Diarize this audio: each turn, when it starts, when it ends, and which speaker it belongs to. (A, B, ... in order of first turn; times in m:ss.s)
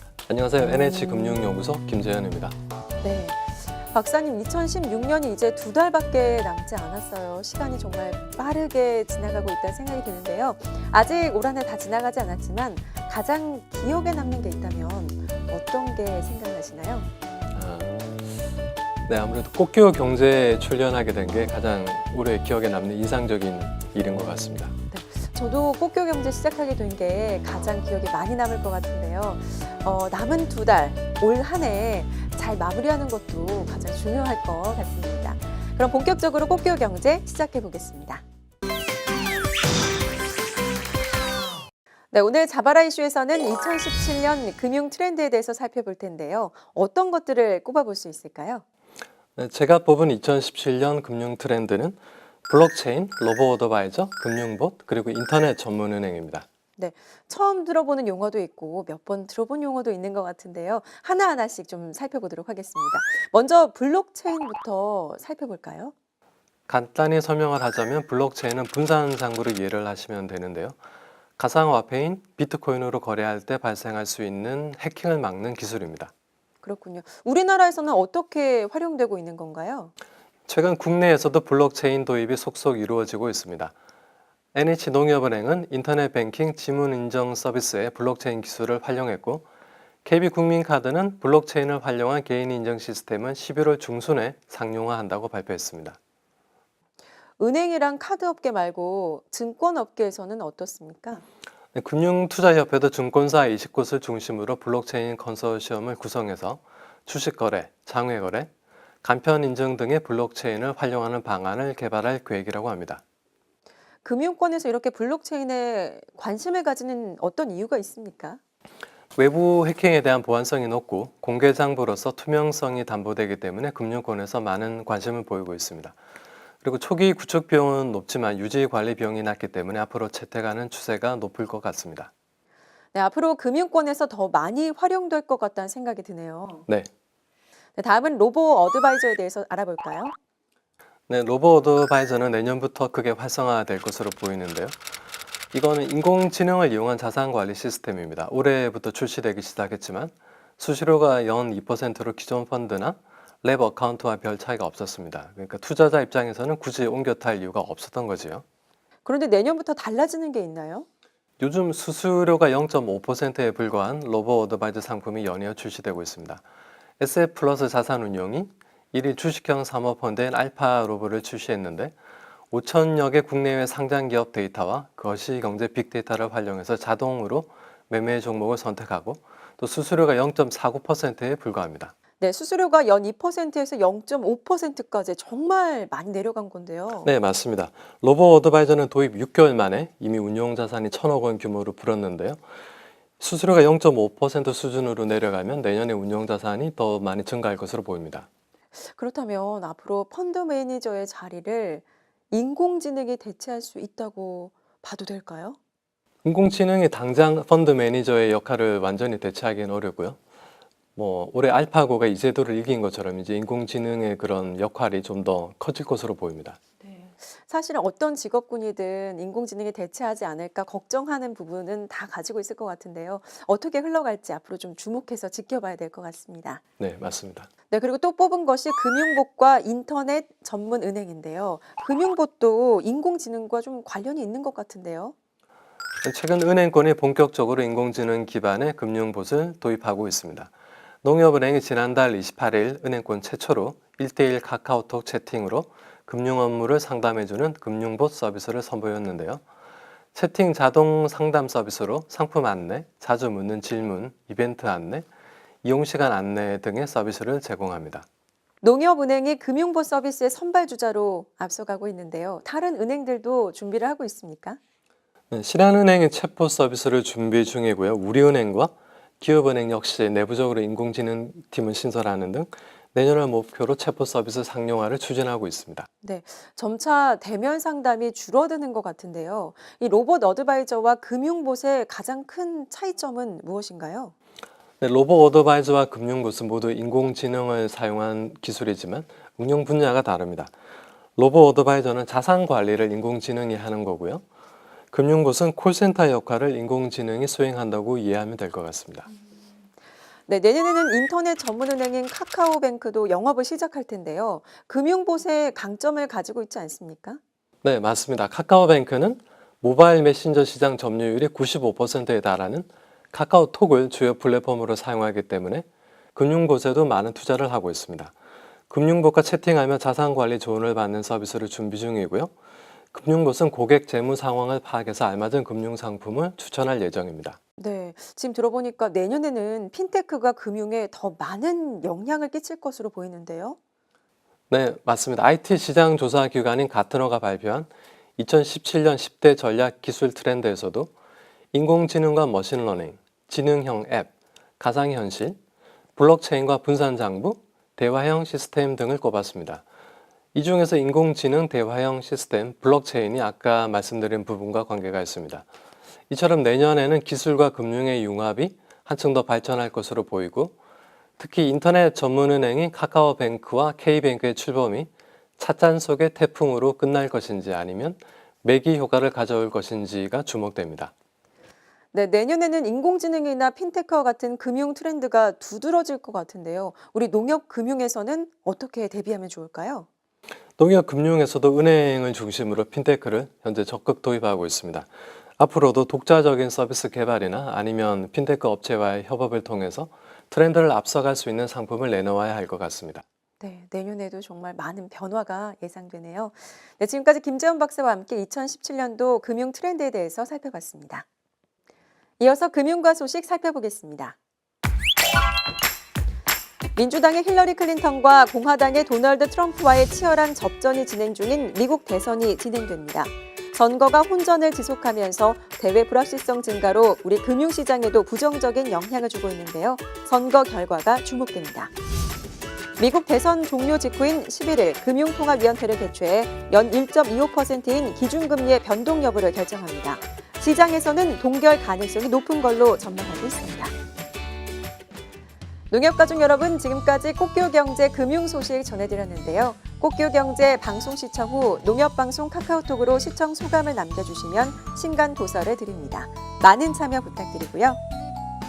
0:00.3-0:02.5 A
0:03.0-0:17.1 B
0:17.5-0:18.1 A
0:19.1-0:24.7 A
0:24.9-0:38.2 B
0:42.1-0:48.6 B
0:49.4-0:52.0 A
0:52.5-0:56.4 A
0:56.8-1:05.9 B
1:06.7-1:10.8 A
1:11.4-1:16.1 A
1:16.6-1:19.9 B
1:20.5-1:23.7 A
1:24.5-1:29.4 A
1:30.0-1:36.0 A
1:37.4-1:41.2 B
1:41.8-1:48.5 A
1:49.0-1:53.0 A
1:54.0-1:58.4 B
1:59.2-2:05.9 A
2:06.6-2:12.1 A
2:12.9-2:16.7 B
2:17.8-2:20.1 B
2:21.1-2:24.8 A
2:25.5-2:38.4 A
2:39.0-2:40.8 B
2:41.4-2:46.4 A
2:47.0-2:51.9 A
2:52.5-3:01.9 A
3:02.2-3:07.1 B
3:07.0-3:12.4 A
3:13.2-3:18.3 A
3:18.8-3:25.6 B
3:26.2-3:30.2 A
3:31.0-3:36.6 A
3:36.8-3:46.6 B
3:46.8-3:47.5 A
3:47.7-3:55.1 B
3:56.0-4:00.5 A
4:01.0-4:09.4 A
4:10.2-4:15.0 A
4:15.6-4:18.0 A
4:18.6-4:24.6 B
4:25.3-4:35.9 A
4:36.0-4:44.1 B
4:44.8-4:50.5 A
4:51.2-4:54.2 A
4:54.9-4:59.1 A
5:00.3-5:07.2 B
5:07.6-5:18.1 A
5:18.7-5:22.3 A
5:22.9-5:27.4 A
5:27.6-5:33.6 B
5:34.5-5:40.9 A
5:41.5-5:45.4 A
5:46.0-5:49.6 A
5:50.3-5:55.4 A
5:56.1-6:00.5 A
6:01.2-6:10.9 A
6:11.9-6:19.9 B
6:20.6-6:24.9 A
6:25.4-6:33.0 A
6:33.4-6:41.0 B
6:42.2-6:44.2 B
6:46.8-7:01.7 B
7:02.8-7:13.7 B
7:15.7-7:27.8 B